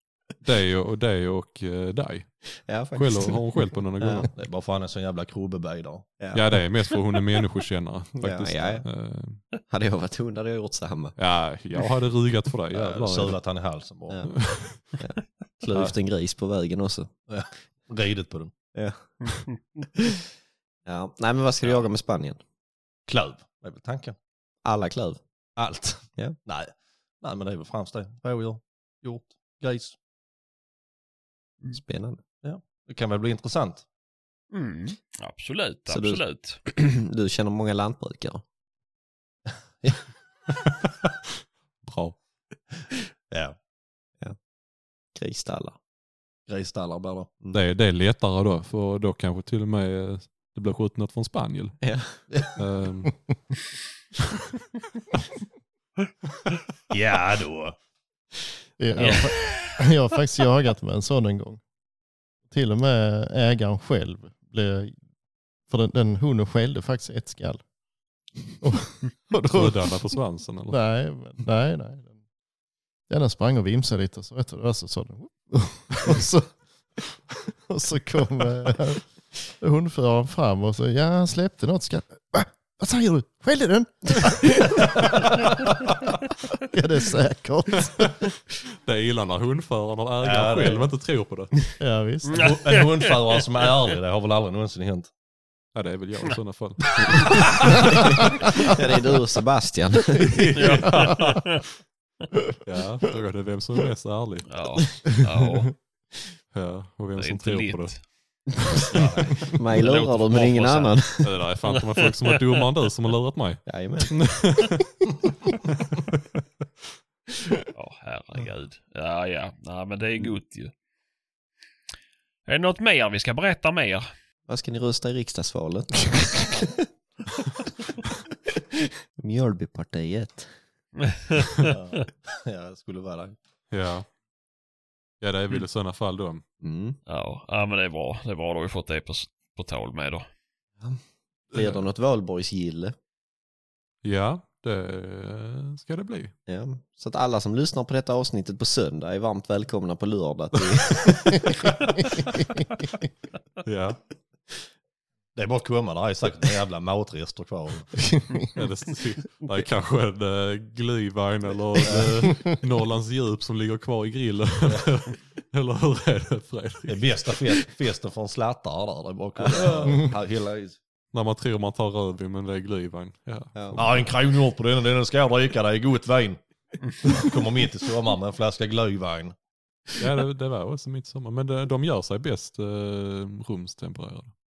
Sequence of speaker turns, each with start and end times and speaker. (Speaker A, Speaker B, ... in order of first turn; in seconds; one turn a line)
Speaker A: 0.4-4.3
Speaker B: 2.6-4.3
Speaker C: 4.3-6.1
Speaker B: 6.2-6.4
Speaker A: 6.3-9.4
Speaker B: 8.2-8.8
Speaker B: 9.7-11.2
Speaker A: 11.2-13.4
Speaker C: 12.7-14.2
Speaker B: 14.1-17.1
Speaker A: 14.4-14.8
Speaker C: 17.3-18.5
Speaker B: 18.7-19.3
Speaker B: 20.9-22.4
Speaker C: 23.1-24.1
Speaker B: 24.6-25.2
Speaker C: 25.6-29.9
Speaker B: 31.7-32.2
Speaker C: 32.4-33.8
Speaker D: 34.5-36.6
Speaker B: 35.9-38.4
Speaker A: 40.6-42.2
Speaker B: 45.1-45.8
Speaker C: 46.5-47.3
Speaker A: 47.5-51.8
Speaker B: 51.8-52.2
Speaker A: 52.5-53.2
Speaker C: 56.9-57.7
Speaker E: 58.8-61.6
Speaker D: 59.0-59.7
Speaker E: 62.5-65.0
Speaker E: 65.6-67.6
Speaker E: 68.6-70.0
Speaker A: 69.4-70.8
Speaker E: 70.7-72.1
Speaker E: 73.1-85.2
Speaker E: 86.6-88.3
Speaker A: 88.7-91.5
Speaker C: 90.2-90.8
Speaker E: 91.8-92.5
Speaker D: 92.3-93.4
Speaker C: 92.3-95.1
Speaker A: 95.7-98.0
Speaker B: 97.8-100.5
Speaker A: 100.2-101.6
Speaker D: 100.5-101.6
Speaker E: 100.9-101.2
Speaker A: 102.6-104.5
Speaker D: 104.5-105.7
Speaker A: 106.5-107.9
Speaker D: 107.2-108.0
Speaker C: 108.9-109.4
Speaker D: 109.4-111.0
Speaker B: 109.5-111.3
Speaker A: 111.2-115.1
Speaker D: 111.7-112.6
Speaker B: 113.7-114.2
Speaker A: 115.8-116.2
Speaker D: 117.7-120.7
Speaker D: 122.5-124.1
Speaker B: 124.5-126.7
Speaker B: 129.2-130.5
Speaker D: 131.0-131.7
Speaker C: 131.6-133.4
Speaker A: 133.7-134.1
Speaker A: 135.2-136.4
Speaker B: 136.6-137.0
Speaker D: 137.1-140.2
Speaker B: 141.5-142.9
Speaker A: 144.0-146.3
Speaker B: 146.5-151.5
Speaker A: 153.6-154.0
Speaker C: 155.3-157.9
Speaker E: 158.0-158.5
Speaker A: 158.5-167.3
Speaker C: 161.8-162.1
Speaker C: 166.9-170.8
Speaker B: 169.4-169.7
Speaker A: 169.5-170.1
Speaker A: 171.1-174.1
Speaker B: 173.5-173.8
Speaker C: 173.8-176.4
Speaker C: 177.0-179.3
Speaker A: 180.0-184.3